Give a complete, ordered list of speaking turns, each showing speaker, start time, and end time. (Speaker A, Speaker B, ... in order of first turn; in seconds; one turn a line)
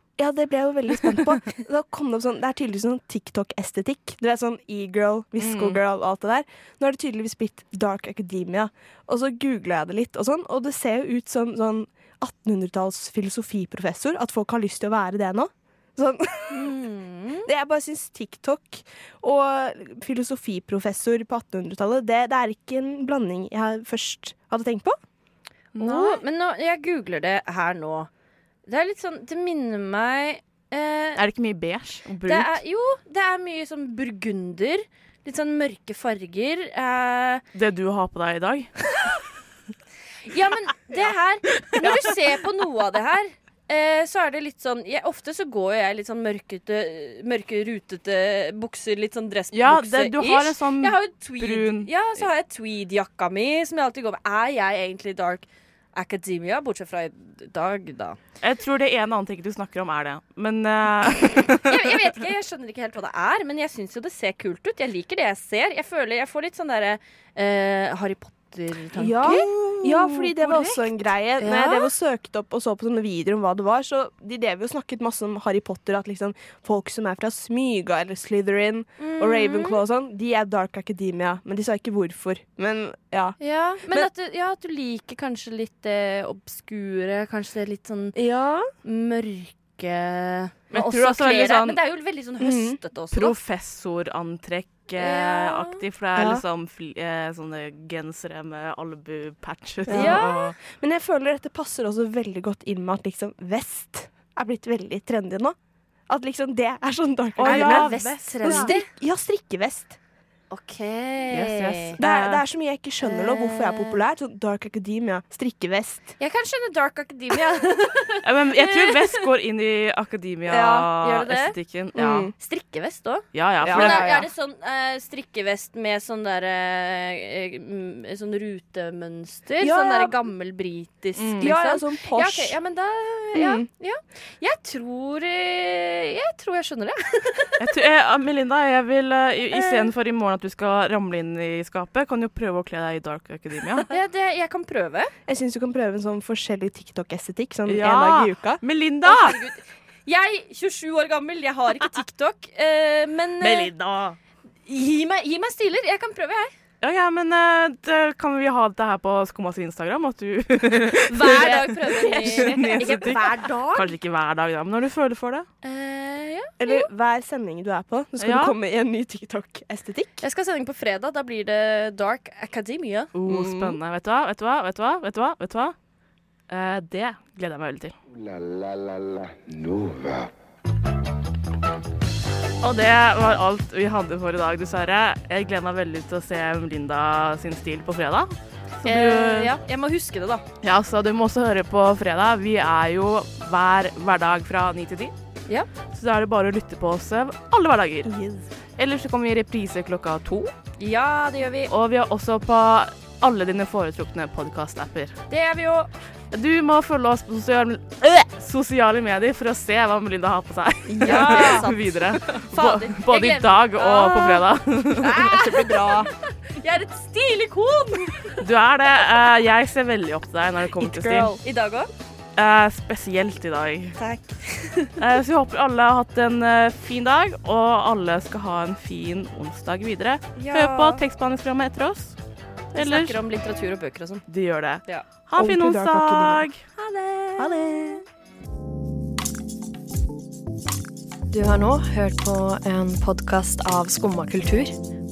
Speaker A: 0.2-16.8
Speaker B: 5.4-5.8
Speaker C: 16.5-17.5
Speaker A: 17.4-24.9
Speaker B: 25.8-26.2
Speaker C: 25.8-28.1
Speaker C: 28.6-31.2
Speaker B: 31.2-32.6
Speaker C: 32.3-37.4
Speaker B: 37.5-38.7
Speaker C: 40.3-58.2
Speaker B: 49.5-52.3
Speaker B: 58.4-61.9
Speaker C: 61.6-69.5
Speaker A: 69.0-83.4
Speaker C: 70.4-70.8
Speaker C: 71.4-71.9
Speaker C: 79.0-79.8
Speaker C: 83.4-88.2
Speaker A: 88.1-88.7
Speaker C: 88.8-93.3
Speaker B: 90.7-91.8
Speaker A: 92.4-92.8
Speaker B: 93.1-100.5
Speaker C: 95.0-95.8
Speaker A: 96.1-96.4
Speaker A: 99.9-105.5
Speaker C: 99.9-100.5
Speaker A: 106.1-110.0
Speaker B: 107.4-108.8
Speaker C: 107.4-108.9
Speaker C: 110.5-112.0
Speaker B: 111.3-112.4
Speaker A: 112.0-116.1
Speaker C: 113.0-114.0
Speaker C: 116.2-119.3
Speaker B: 118.2-122.3
Speaker A: 120.5-120.9
Speaker C: 121.0-121.5
Speaker A: 121.9-122.3
Speaker C: 122.4-137.6
Speaker B: 123.3-124.3
Speaker A: 123.6-124.2
Speaker A: 129.6-130.2
Speaker B: 131.2-131.5
Speaker A: 131.4-132.6
Speaker A: 133.3-133.7
Speaker B: 137.6-143.9
Speaker C: 139.5-139.9
Speaker C: 143.9-145.1
Speaker A: 145.3-148.6
Speaker B: 147.7-149.3
Speaker C: 149.0-153.7
Speaker B: 153.4-154.2
Speaker C: 154.7-156.5
Speaker B: 156.8-165.5
Speaker C: 161.1-163.5
Speaker A: 161.2-163.9
Speaker C: 165.6-166.9
Speaker A: 166.6-170.2
Speaker B: 168.2-168.5
Speaker C: 170.2-173.1
Speaker B: 173.1-175.7
Speaker A: 173.2-173.8
Speaker B: 176.5-177.9
Speaker D: 178.1-180.3
Speaker B: 182.6-189.6
Speaker C: 188.8-190.4
Speaker B: 190.6-195.1
Speaker B: 195.9-198.1
Speaker A: 198.0-198.4
Speaker B: 198.8-200.5
Speaker C: 200.8-201.7
Speaker B: 201.7-205.2
Speaker C: 205.3-205.9
Speaker B: 206.3-215.2
Speaker A: 210.9-211.7
Speaker C: 211.0-214.4
Speaker C: 214.9-215.9
Speaker A: 215.0-216.1
Speaker C: 216.5-218.3
Speaker B: 218.4-221.3
Speaker A: 220.8-221.4
Speaker C: 221.4-221.9
Speaker B: 222.3-224.0
Speaker C: 224.0-225.0
Speaker B: 225.0-232.2
Speaker C: 230.3-231.0
Speaker B: 232.7-233.2
Speaker C: 232.7-234.2
Speaker B: 234.3-236.6
Speaker A: 235.3-236.5
Speaker C: 236.8-237.4
Speaker A: 237.4-238.0
Speaker E: 241.3-244.7